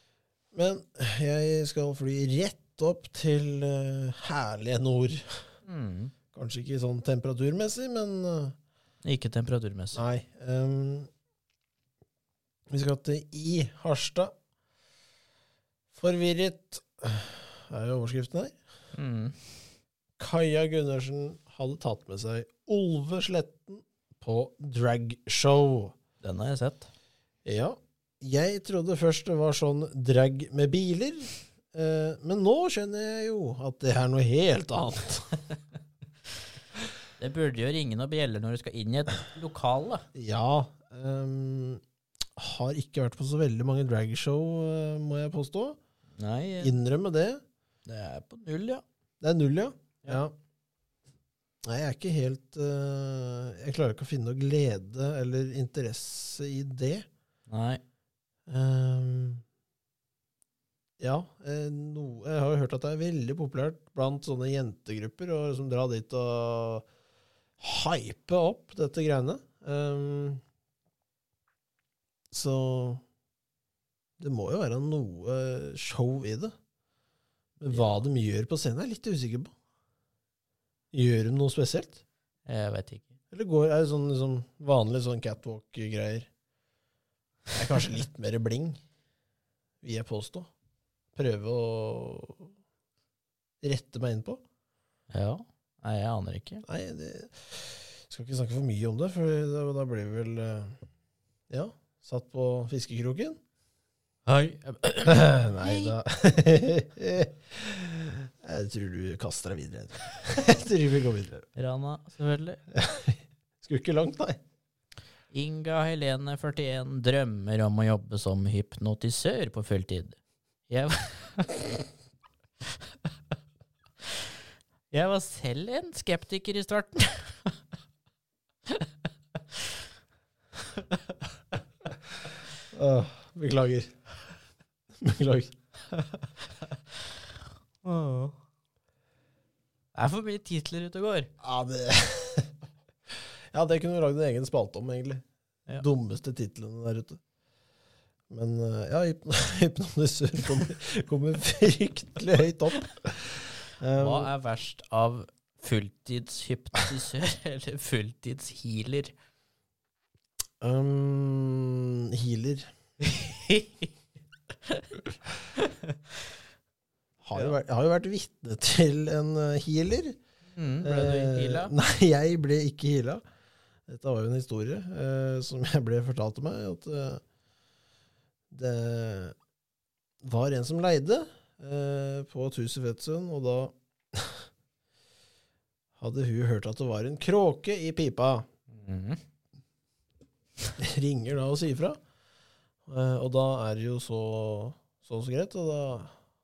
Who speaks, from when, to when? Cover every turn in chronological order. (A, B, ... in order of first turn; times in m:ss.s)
0:00.5-0:05.5 A
0:05.6-0:06.1 B
0:06.3-0:08.6 A
0:09.0-0:10.0 B
0:10.0-0:11.1 A
0:12.7-0:14.3 A
0:15.9-0:18.6 A
0:19.0-0:19.4 B
0:20.2-0:26.0 A
0:26.2-0:26.9 B
0:27.4-0:35.4 A
0:37.2-0:40.1 B
0:40.1-0:41.8 A
0:42.4-0:45.8 A
0:46.2-0:46.8 B
0:46.6-0:47.4 A
0:47.9-0:48.8 B
0:49.2-0:50.3 A
0:51.6-0:57.1 A
0:57.5-0:57.8 B
0:58.5-0:59.4 A
1:01.0-1:06.9 A
1:07.6-1:10.4 A
1:12.3-1:13.0 A
1:14.2-1:16.5 A
1:17.6-1:19.5 A
1:17.7-1:18.0 B
1:20.9-1:22.0 A
1:22.5-1:23.2 B
1:23.3-1:26.3 A
1:27.5-1:28.8 A
1:29.8-1:30.5 A
1:31.2-1:32.5 A
1:33.6-1:34.4 A
1:35.1-1:36.6 B
1:36.6-1:40.8 A
1:41.5-1:43.4 A
1:44.3-1:46.0 B
1:45.0-1:51.5 A
1:51.6-1:52.6 B
1:52.7-1:54.4 A
1:55.3-2:00.2 B
2:00.7-2:01.8 B
2:04.9-2:07.6 B
2:10.7-2:11.0 B
2:12.7-2:14.0 A
2:15.0-2:15.6 A
2:17.8-2:18.4 B
2:20.0-2:21.3 B
2:21.4-2:22.5 A
2:23.1-2:25.2 A
2:25.8-2:27.2 A
2:28.3-2:34.3 A
2:34.0-2:39.1 B
2:40.6-2:42.7 A
2:43.0-2:43.9 B
2:44.7-2:46.0 B
2:47.2-2:50.2 A
2:50.6-2:51.8 B
2:50.8-2:53.2 A
2:53.9-2:57.2 A
2:58.5-2:59.4 A
3:00.2-3:04.5 A
3:06.0-3:08.5 A
3:08.7-3:09.2 B
3:10.8-3:12.0 A
3:12.9-3:16.2 A